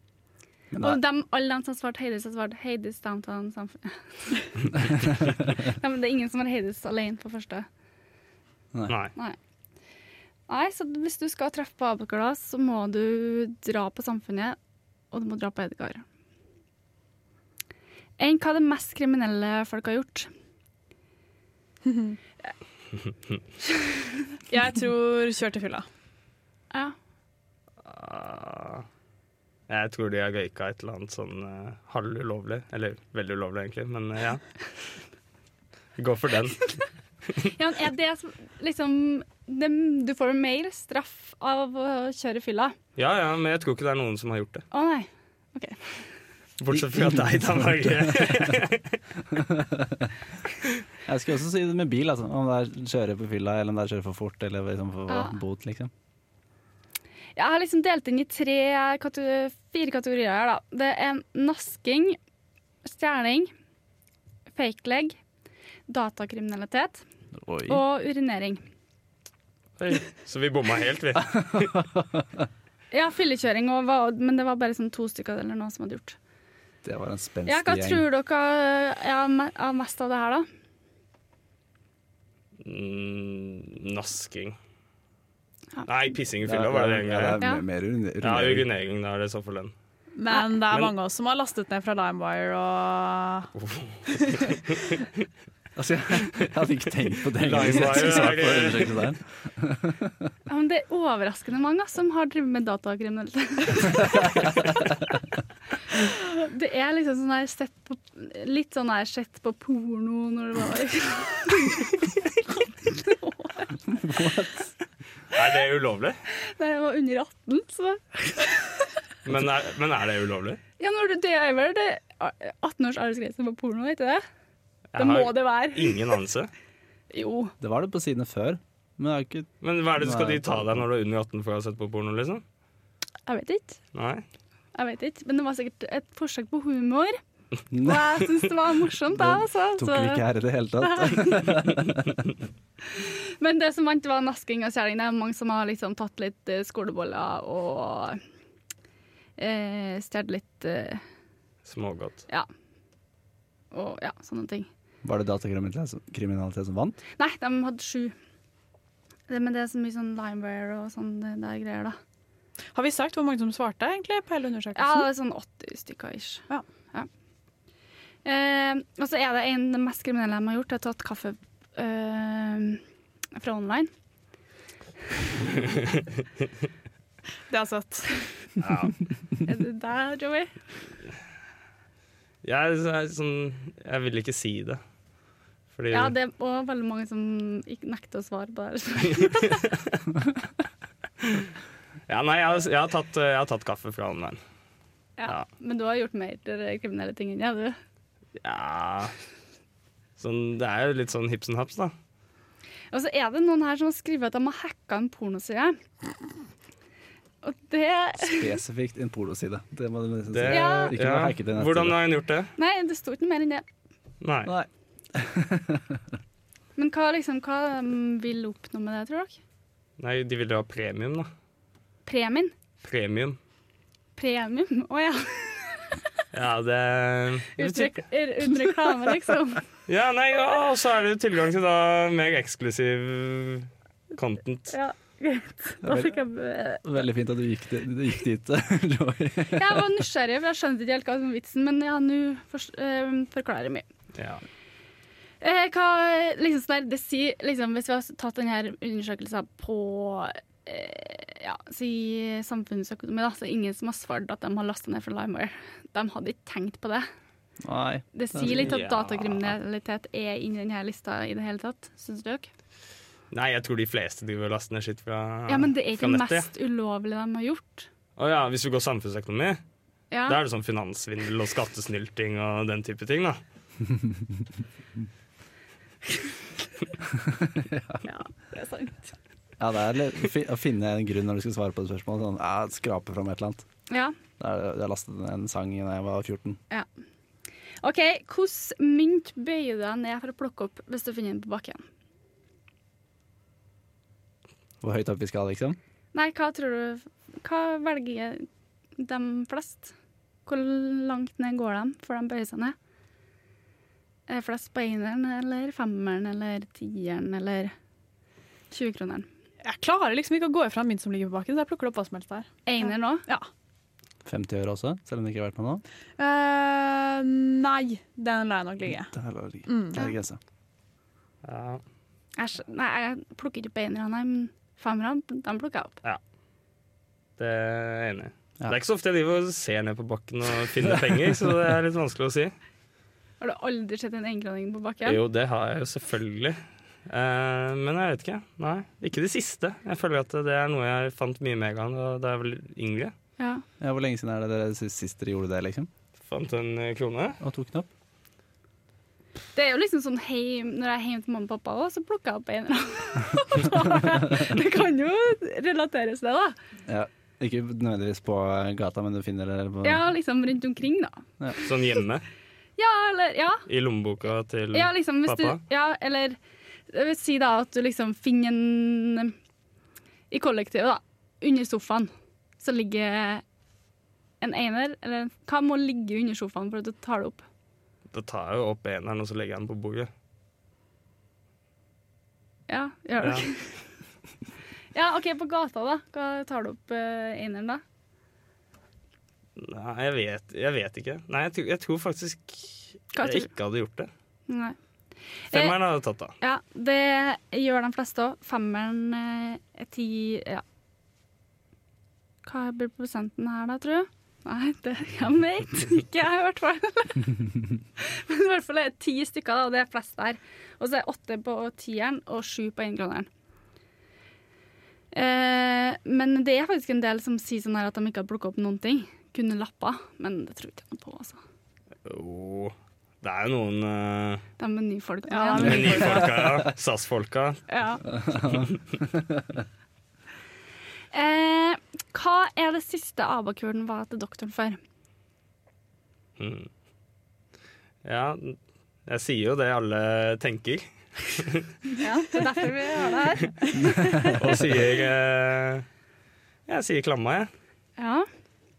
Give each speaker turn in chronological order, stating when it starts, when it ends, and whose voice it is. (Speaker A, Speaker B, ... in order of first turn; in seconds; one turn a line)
Speaker A: 0.7-1.0
Speaker B: 0.8-4.4
Speaker A: 5.1-5.4
Speaker B: 5.4-7.7
Speaker B: 10.5-14.6
Speaker B: 15.1-16.0
Speaker B: 18.2-20.3
Speaker C: 21.9-22.1
Speaker C: 24.5-25.9
Speaker D: 27.8-28.9
Speaker D: 29.7-34.4
Speaker D: 36.0-36.7
Speaker B: 37.4-42.7
Speaker D: 43.0-44.6
Speaker B: 44.7-46.0
Speaker D: 46.6-49.0
Speaker A: 46.7-48.5
Speaker A: 49.3-50.1
Speaker A: 51.0-55.9
Speaker B: 55.1-55.3
Speaker B: 57.4-62.2
Speaker B: 62.8-63.5
Speaker B: 64.5-65.2
Speaker B: 65.9-67.0
Speaker A: 67.4-67.8
Speaker B: 67.7-68.6
Speaker D: 69.8-71.8
Speaker A: 71.7-72.2
Speaker B: 72.9-76.2
Speaker A: 76.8-78.0
Speaker B: 77.5-80.5
Speaker D: 82.6-84.6
Speaker D: 85.8-87.4
Speaker A: 86.4-88.7
Speaker D: 88.2-89.7
Speaker C: 90.2-93.5
Speaker D: 93.5-94.6
Speaker C: 94.2-94.5
Speaker A: 95.8-100.1
Speaker D: 97.3-99.0
Speaker B: 100.5-104.6
Speaker B: 105.9-112.0
Speaker B: 112.8-113.6
Speaker A: 113.9-114.7
Speaker D: 115.3-116.2
Speaker B: 116.3-118.8
Speaker D: 119.2-120.6
Speaker B: 120.8-124.2
Speaker D: 124.9-126.5
Speaker B: 125.0-126.2
Speaker B: 127.1-127.5
Speaker A: 127.6-130.8
Speaker D: 129.6-132.4
Speaker B: 133.2-133.8
Speaker D: 133.9-134.2
Speaker B: 134.7-137.2
Speaker A: 137.7-138.2
Speaker B: 137.8-140.2
Speaker A: 139.1-142.2
Speaker B: 140.8-141.4
Speaker B: 142.9-148.2
Speaker B: 149.4-151.0
Speaker D: 151.6-152.2
Speaker B: 153.7-154.7
Speaker A: 155.0-157.0
Speaker B: 157.2-158.1
Speaker B: 159.3-162.0
Speaker C: 162.7-165.1
Speaker B: 164.8-167.1
Speaker B: 168.2-172.8
Speaker B: 173.3-173.9
Speaker D: 175.7-176.0
Speaker C: 177.5-178.2
Speaker D: 178.6-178.9
Speaker B: 179.4-180.5
Speaker D: 182.4-184.8
Speaker D: 185.7-186.1
Speaker B: 185.9-189.6
Speaker D: 189.4-190.0
Speaker D: 192.1-194.4
Speaker B: 195.2-197.8
Speaker D: 198.4-199.1
Speaker D: 200.2-201.9
Speaker B: 202.9-205.8
Speaker B: 207.4-208.6
Speaker A: 208.2-211.9
Speaker D: 210.3-212.5
Speaker B: 210.5-210.9
Speaker B: 212.6-213.6
Speaker D: 214.2-214.5
Speaker A: 214.4-216.0
Speaker B: 216.8-219.4
Speaker D: 220.0-221.3
Speaker B: 222.1-222.5
Speaker D: 222.8-223.4
Speaker B: 224.2-226.0
Speaker D: 226.3-228.0
Speaker B: 227.6-229.6
Speaker D: 229.9-234.7
Speaker B: 234.7-237.0
Speaker A: 235.8-236.2
Speaker A: 236.8-239.9
Speaker B: 239.5-243.8
Speaker D: 244.2-244.4
Speaker B: 245.4-257.0
Speaker A: 257.6-258.7
Speaker B: 258.1-262.5
Speaker D: 258.4-259.6
Speaker D: 263.3-266.5
Speaker B: 265.5-267.9
Speaker D: 268.2-269.6
Speaker B: 270.1-270.4
Speaker D: 270.3-273.4
Speaker A: 277.2-278.0
Speaker B: 278.1-279.0
Speaker A: 279.6-283.6
Speaker B: 283.9-284.1
Speaker A: 284.4-286.6
Speaker B: 287.8-291.8
Speaker A: 294.8-295.8
Speaker B: 296.1-298.5
Speaker B: 299.0-299.9
Speaker B: 300.4-302.7
Speaker B: 304.3-307.7
Speaker B: 308.7-309.2
Speaker C: 309.6-312.5
Speaker B: 312.6-313.3
Speaker A: 314.2-315.8
Speaker C: 316.2-319.1
Speaker A: 319.1-320.4
Speaker C: 319.7-320.0
Speaker D: 321.4-321.8
Speaker B: 322.4-326.0
Speaker D: 327.4-332.5
Speaker B: 333.4-335.2
Speaker D: 335.0-343.1
Speaker B: 343.4-343.6
Speaker A: 343.8-345.9
Speaker D: 346.2-347.4
Speaker A: 347.4-347.9
Speaker B: 349.5-356.6
Speaker A: 356.9-360.0
Speaker B: 359.8-361.7
Speaker D: 361.6-362.2
Speaker B: 362.8-363.6
Speaker D: 363.7-365.6
Speaker B: 364.7-366.4
Speaker B: 366.9-369.3
Speaker B: 370.3-373.4
Speaker B: 374.4-377.4
Speaker D: 378.1-380.1
Speaker B: 382.7-383.8
Speaker D: 383.2-383.5
Speaker B: 384.9-387.8
Speaker D: 389.6-394.1
Speaker B: 393.1-393.5
Speaker B: 394.5-394.8
Speaker B: 395.5-395.8
Speaker D: 395.5-396.3
Speaker B: 396.4-400.6
Speaker B: 402.4-407.4
Speaker B: 408.0-413.3
Speaker B: 415.1-421.4
Speaker D: 422.0-424.4
Speaker B: 424.6-426.2
Speaker C: 425.3-426.3
Speaker D: 425.6-427.6
Speaker B: 427.7-428.0
Speaker A: 428.2-429.4
Speaker B: 431.1-434.8
Speaker D: 436.4-436.7
Speaker D: 438.0-441.7
Speaker B: 442.0-444.4
Speaker A: 443.8-444.5
Speaker D: 444.3-445.9
Speaker D: 446.7-447.5
Speaker B: 448.0-448.2